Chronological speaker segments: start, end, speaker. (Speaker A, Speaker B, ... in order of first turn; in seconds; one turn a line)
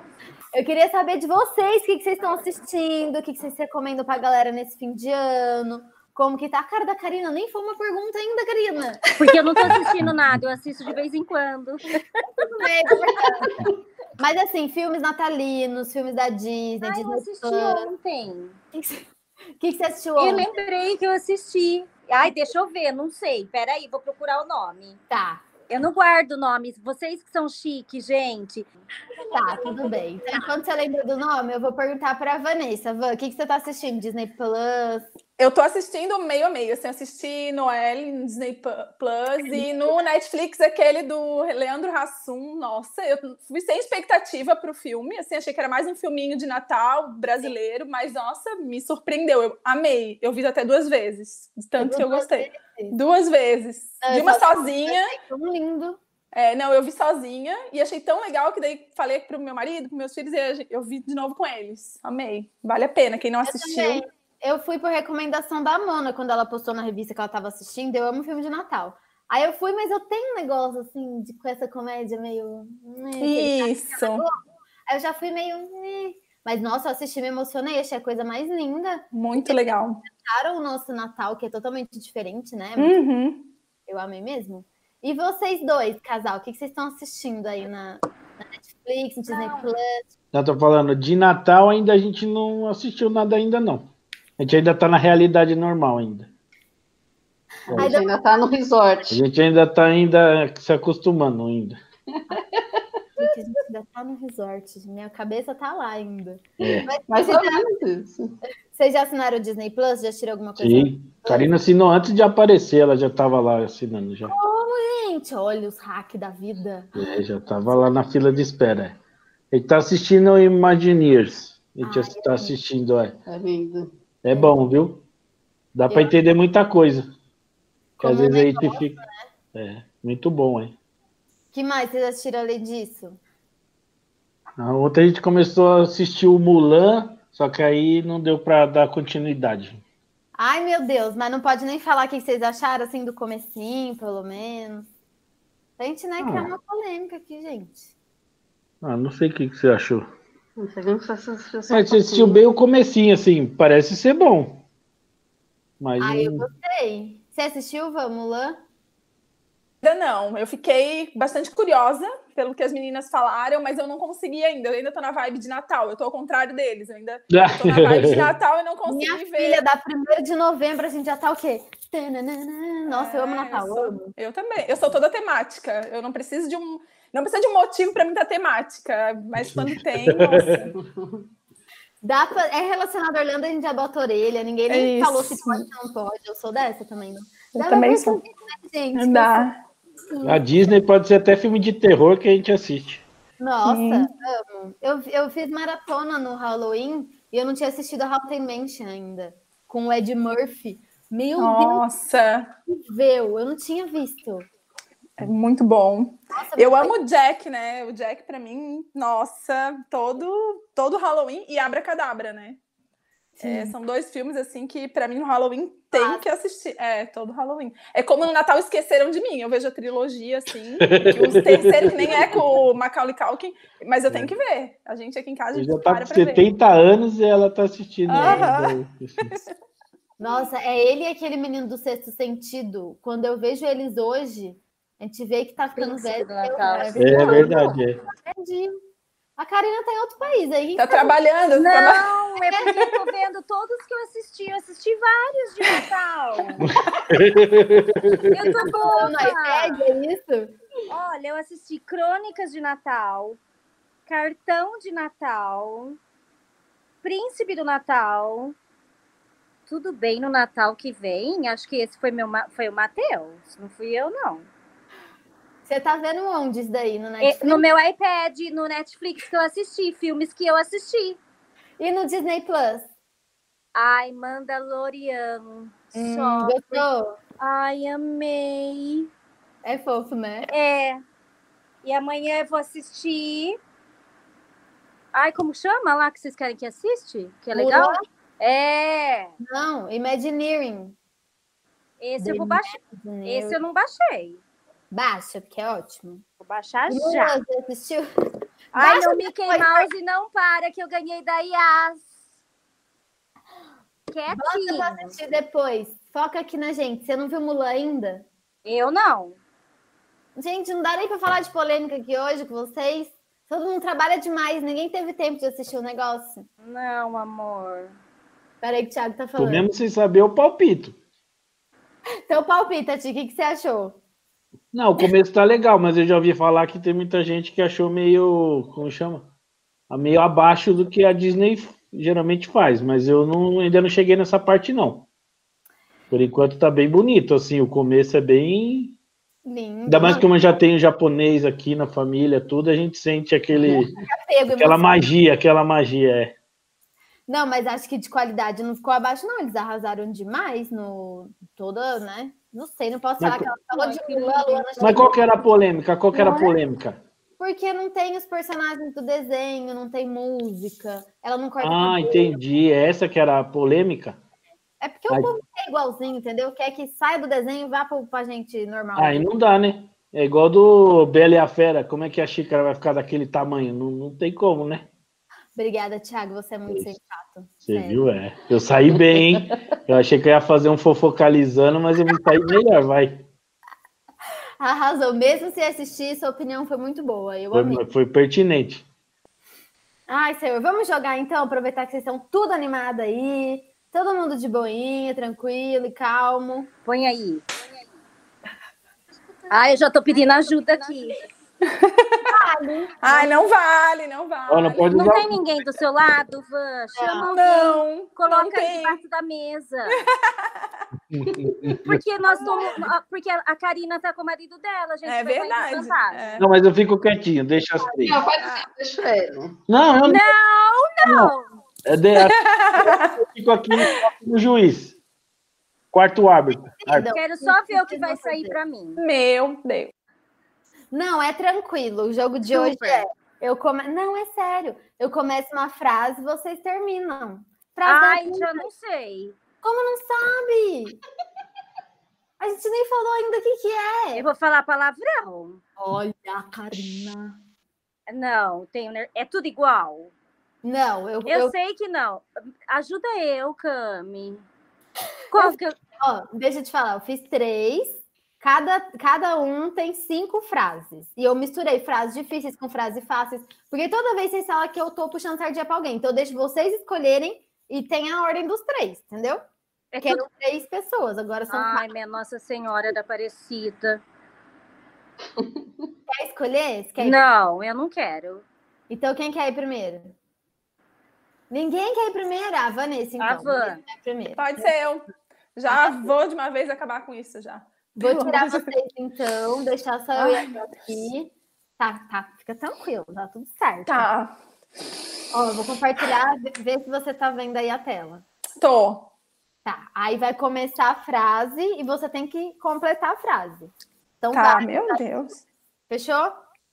Speaker A: 0.5-9.1
Speaker B: 9.2-12.3
Speaker C: 9.6-10.4
Speaker A: 12.4-13.5
Speaker D: 13.2-13.7
Speaker A: 14.2-17.9
Speaker B: 16.8-18.6
Speaker A: 18.7-19.0
Speaker A: 19.6-20.5
Speaker B: 20.2-25.0
Speaker A: 25.1-25.4
Speaker B: 25.7-28.7
Speaker B: 29.2-30.5
Speaker A: 29.3-35.1
Speaker E: 35.4-55.1
Speaker A: 51.8-53.0
Speaker A: 54.0-56.0
Speaker E: 56.3-64.0
Speaker A: 63.4-74.4
Speaker E: 73.2-74.2
Speaker A: 74.9-83.0
Speaker E: 79.1-80.0
Speaker E: 82.8-83.5
Speaker A: 83.9-90.1
Speaker B: 89.3-89.6
Speaker C: 90.3-96.3
Speaker A: 97.7-98.4
Speaker D: 97.7-99.2
Speaker C: 99.1-101.8
Speaker D: 102.3-102.8
Speaker A: 103.2-107.7
Speaker C: 106.6-106.9
Speaker D: 106.6-108.3
Speaker A: 108.7-111.0
Speaker C: 110.6-114.3
Speaker A: 114.2-116.9
Speaker C: 116.9-119.0
Speaker C: 119.5-123.2
Speaker A: 121.8-122.6
Speaker D: 123.3-123.9
Speaker C: 124.2-125.0
Speaker A: 124.3-124.5
Speaker C: 125.8-127.1
Speaker A: 125.9-126.1
Speaker C: 128.0-129.0
Speaker A: 128.0-129.1
Speaker C: 129.5-130.8
Speaker A: 131.5-133.2
Speaker C: 134.6-139.8
Speaker A: 140.4-144.9
Speaker A: 145.8-147.9
Speaker C: 146.2-146.5
Speaker C: 148.8-150.1
Speaker D: 150.6-152.4
Speaker C: 151.7-154.6
Speaker C: 155.8-156.4
Speaker A: 156.0-158.6
Speaker E: 159.8-169.6
Speaker C: 167.3-168.3
Speaker A: 168.9-174.1
Speaker E: 172.9-180.7
Speaker C: 179.4-180.7
Speaker A: 182.0-189.5
Speaker E: 184.7-185.7
Speaker E: 187.6-188.2
Speaker E: 188.9-189.6
Speaker A: 190.1-190.4
Speaker C: 190.2-193.1
Speaker A: 193.4-201.9
Speaker E: 193.6-194.1
Speaker E: 201.4-202.5
Speaker A: 202.7-204.5
Speaker E: 205.2-212.6
Speaker A: 206.3-206.9
Speaker A: 213.4-213.8
Speaker E: 213.4-226.4
Speaker A: 215.9-216.2
Speaker C: 220.9-222.4
Speaker C: 224.1-224.3
Speaker C: 225.5-229.3
Speaker E: 228.1-229.5
Speaker A: 228.1-228.5
Speaker A: 230.2-238.8
Speaker B: 235.8-237.7
Speaker C: 236.9-238.0
Speaker A: 239.4-241.1
Speaker E: 240.8-242.1
Speaker B: 241.6-246.7
Speaker A: 242.5-242.8
Speaker E: 242.7-242.9
Speaker C: 246.6-248.7
Speaker B: 248.3-249.8
Speaker A: 248.6-250.5
Speaker B: 250.9-253.4
Speaker B: 254.1-256.0
Speaker B: 257.0-258.6
Speaker B: 259.7-264.5
Speaker A: 265.7-267.6
Speaker B: 267.2-271.2
Speaker A: 271.8-272.9
Speaker B: 273.7-276.9
Speaker A: 275.9-277.2
Speaker B: 277.4-279.1
Speaker A: 279.6-280.5
Speaker B: 280.5-281.0
Speaker B: 281.8-283.6
Speaker B: 285.1-289.3
Speaker A: 287.5-288.0
Speaker A: 289.4-290.9
Speaker B: 292.0-294.4
Speaker A: 292.2-293.6
Speaker A: 294.9-296.2
Speaker B: 296.4-297.4
Speaker A: 296.9-298.1
Speaker A: 298.7-299.9
Speaker B: 298.7-302.1
Speaker B: 304.1-305.1
Speaker A: 304.3-308.3
Speaker B: 308.6-309.4
Speaker A: 310.4-316.4
Speaker B: 316.6-317.9
Speaker A: 318.6-319.7
Speaker C: 319.4-321.0
Speaker A: 322.3-324.0
Speaker C: 324.7-329.3
Speaker C: 329.9-335.1
Speaker C: 336.1-339.0
Speaker A: 339.4-340.3
Speaker C: 339.9-343.9
Speaker A: 344.0-344.9
Speaker C: 344.6-346.3
Speaker A: 347.3-355.2
Speaker C: 353.2-353.4
Speaker B: 353.6-355.1
Speaker C: 354.8-357.0
Speaker A: 356.1-356.6
Speaker A: 357.4-362.4
Speaker C: 361.6-364.2
Speaker A: 364.8-369.2
Speaker C: 368.9-374.9
Speaker A: 375.6-378.1
Speaker C: 377.6-383.2
Speaker A: 384.6-387.8
Speaker C: 387.5-388.9
Speaker A: 390.1-396.7
Speaker B: 396.8-397.5
Speaker B: 399.5-401.3
Speaker E: 401.7-402.3
Speaker A: 402.2-403.3
Speaker E: 403.0-404.9
Speaker C: 404.5-405.4
Speaker B: 404.9-410.0
Speaker A: 406.9-407.3
Speaker E: 407.3-409.0
Speaker E: 409.9-410.7
Speaker C: 411.1-412.0
Speaker D: 411.3-411.7
Speaker B: 411.8-416.3
Speaker E: 412.3-412.7
Speaker E: 415.1-416.4
Speaker C: 416.4-418.2
Speaker D: 418.0-419.6
Speaker E: 418.4-418.7
Speaker C: 419.7-420.3
Speaker B: 420.0-421.6
Speaker C: 421.0-421.3
Speaker C: 421.8-424.9
Speaker E: 422.2-423.1
Speaker C: 425.9-427.1
Speaker A: 426.8-428.6
Speaker B: 427.1-429.0
Speaker E: 429.0-429.9
Speaker A: 430.9-438.7
Speaker B: 432.5-433.0
Speaker B: 437.8-439.4
Speaker A: 439.6-441.0
Speaker A: 442.4-444.2
Speaker B: 444.1-445.6
Speaker A: 445.8-447.4
Speaker B: 448.1-450.1
Speaker A: 450.6-451.5
Speaker B: 451.3-454.4
Speaker A: 455.3-469.4
Speaker B: 455.3-455.8
Speaker B: 469.9-470.2
Speaker A: 470.0-471.9
Speaker B: 471.5-474.0
Speaker A: 476.1-477.2
Speaker B: 477.0-478.4
Speaker A: 478.9-480.1
Speaker A: 481.5-484.7
Speaker B: 483.2-483.8
Speaker E: 484.4-488.7
Speaker A: 485.7-486.1
Speaker A: 488.0-494.1
Speaker E: 490.2-490.7
Speaker E: 493.9-494.3
Speaker A: 495.3-498.2
Speaker E: 498.6-499.1
Speaker A: 499.6-505.3
Speaker E: 504.3-505.4
Speaker A: 505.9-506.4